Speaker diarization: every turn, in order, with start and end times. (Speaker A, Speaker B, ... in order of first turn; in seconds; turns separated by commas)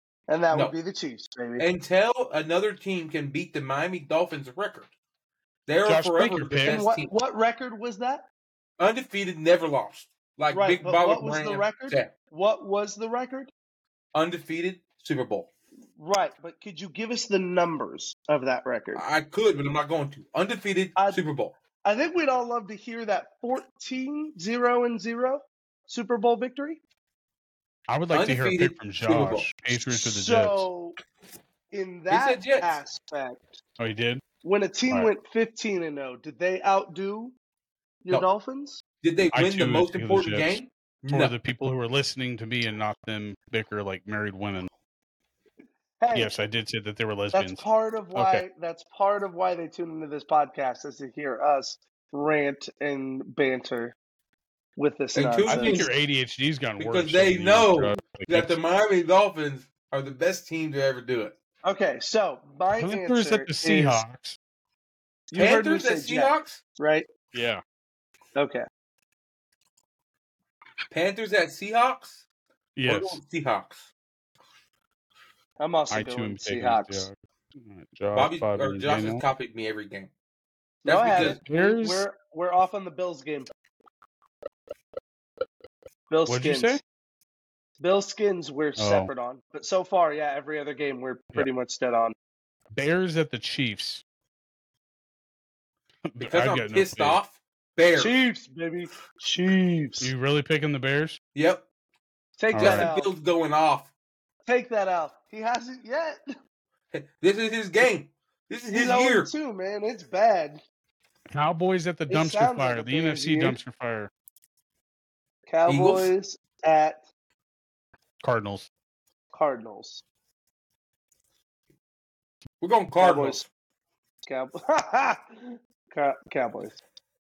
Speaker A: 0.3-1.6, Speaker B: 1.6-4.9, Speaker B: 5.7-7.1, Speaker C: 5.8-6.8, Speaker A: 6.7-8.2, Speaker B: 8.8-12.1, Speaker A: 10.5-13.5, Speaker B: 14.1-15.5, Speaker A: 16.0-19.0, Speaker B: 18.9-21.6, Speaker A: 21.0-21.2, Speaker A: 21.8-26.8, Speaker C: 27.9-30.7, Speaker B: 28.1-29.5, Speaker A: 29.9-31.0, Speaker A: 31.7-33.6, Speaker B: 32.1-32.8, Speaker C: 33.8-34.2, Speaker A: 34.4-37.4, Speaker A: 38.0-38.8, Speaker B: 39.0-41.4, Speaker C: 39.3-44.7, Speaker A: 46.0-46.3, Speaker C: 46.1-47.6, Speaker A: 47.3-54.0, Speaker C: 48.1-48.4, Speaker A: 54.8-55.9, Speaker B: 55.1-55.9, Speaker C: 55.5-58.5, Speaker B: 56.8-61.4, Speaker A: 61.6-64.0, Speaker C: 62.8-64.4, Speaker A: 65.3-67.1, Speaker B: 65.3-66.6, Speaker C: 67.3-67.6, Speaker A: 68.3-68.7, Speaker B: 70.9-72.2, Speaker C: 72.8-73.2, Speaker B: 72.8-73.9, Speaker A: 75.6-77.1, Speaker C: 75.9-79.2, Speaker B: 78.1-80.1, Speaker A: 80.8-83.5, Speaker B: 80.9-81.4, Speaker C: 81.5-82.0, Speaker A: 86.1-86.8, Speaker C: 86.3-86.8, Speaker A: 87.8-92.2, Speaker C: 88.8-89.1, Speaker C: 92.7-94.0, Speaker C: 96.1-97.2, Speaker B: 96.2-98.1, Speaker A: 98.0-100.1, Speaker C: 100.0-101.2, Speaker B: 101.3-101.7, Speaker A: 102.4-103.1, Speaker C: 102.5-102.9, Speaker B: 102.5-103.9, Speaker A: 104.5-106.2, Speaker B: 106.9-109.3, Speaker A: 108.7-110.6, Speaker C: 111.3-114.1, Speaker A: 112.1-113.6, Speaker A: 115.5-117.1, Speaker B: 115.7-116.1, Speaker C: 118.2-118.7, Speaker A: 119.3-120.0, Speaker B: 122.6-123.5, Speaker A: 123.0-123.4, Speaker A: 124.3-126.8